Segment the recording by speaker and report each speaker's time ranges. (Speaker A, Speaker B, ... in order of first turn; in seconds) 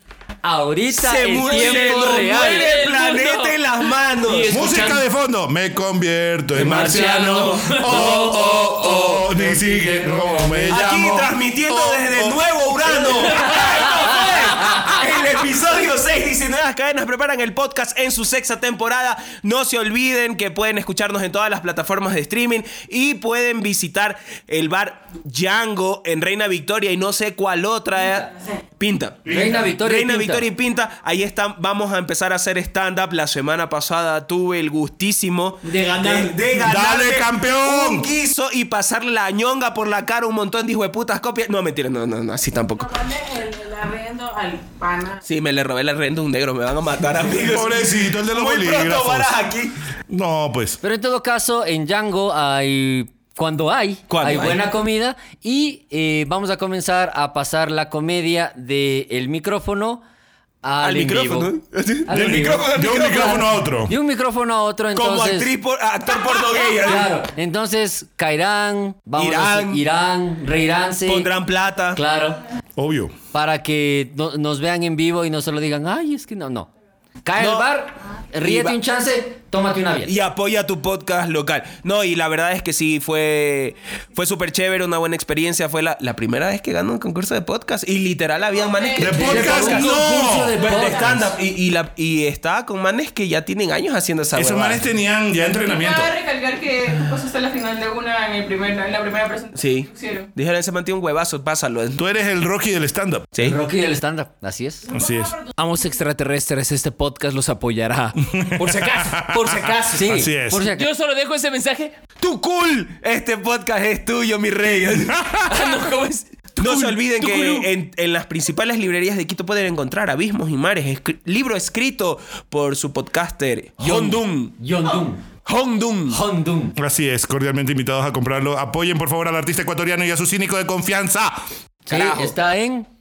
Speaker A: 0.4-2.6, 9.1-10.8, 29.3-30.4, 50.8-60.0, 60.6-61.5, 62.0-65.5, 66.8-71.3, 71.9-72.4, 73.3-76.7, 77.2-80.1, 89.0-91.1, 103.4-104.9, 109.9-110.9, 123.8-125.2, 126.1-126.7, 131.9-132.9
Speaker B: 0.9-4.6, 6.5-7.8, 10.7-43.0, 45.2-49.7, 54.1-54.6, 60.8-63.2, 64.9-67.1, 69.2-69.8, 71.0-72.0, 77.4-77.7, 78.4-78.8, 80.0-94.8, 99.5-102.0, 112.2-115.2, 116.6-124.6, 125.4-126.2, 131.9-132.3
Speaker C: 1.4-3.6, 4.2-5.0, 6.6-9.2, 13.3-14.9, 35.6-36.4, 105.6-111.9, 115.5-117.7
Speaker D: 4.5-13.6, 29.3-29.7, 36.6-38.1, 47.4-49.4, 50.1-50.8, 62.1-63.9, 72.8-73.1, 89.0-91.2, 94.3-96.1, 102.0-103.3, 104.9-105.3, 108.2-110.7, 115.0-115.7, 126.8-131.4
Speaker E: 42.8-45.2
Speaker F: 88.6-89.4, 90.6-91.1, 95.6-100.3